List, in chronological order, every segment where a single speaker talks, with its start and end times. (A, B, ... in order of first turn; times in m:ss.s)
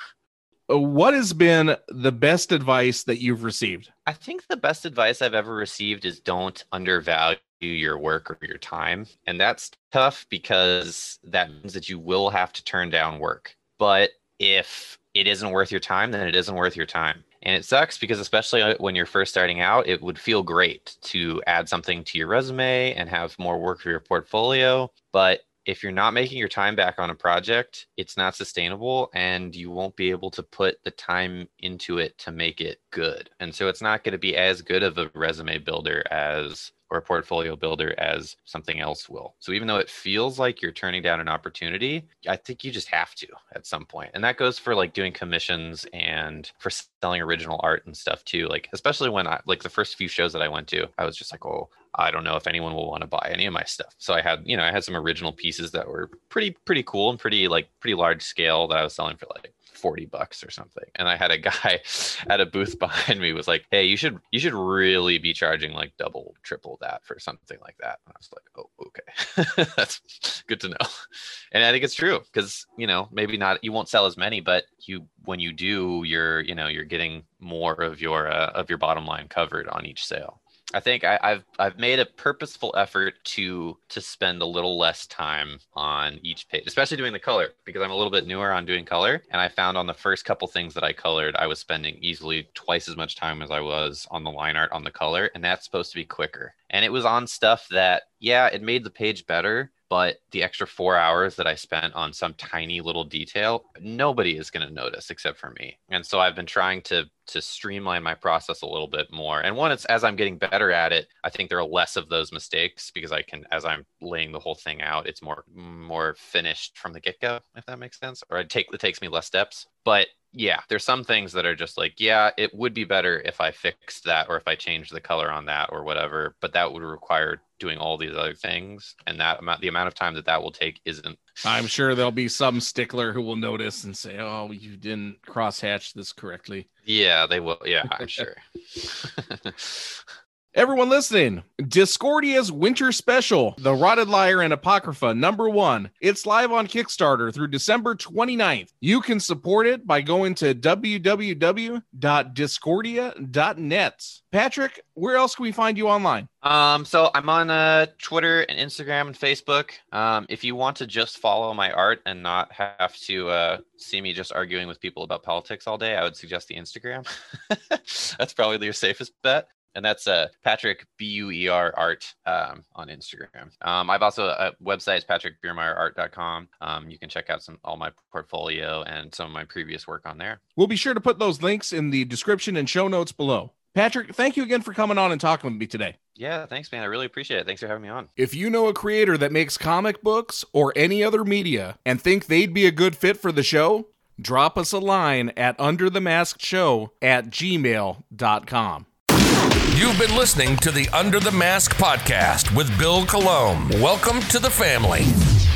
0:00.7-0:03.9 A
0:04.0-1:10.8 B
1:11.5-2:11.2 B
2:11.4-2:16.7 A
2:16.8-2:20.0 B
2:20.5-2:36.3 A
2:36.4-3:00.4 B
3:00.6-3:05.9 A
3:06.2-3:08.1 B
3:08.2-3:18.9 A
3:19.7-3:25.1 C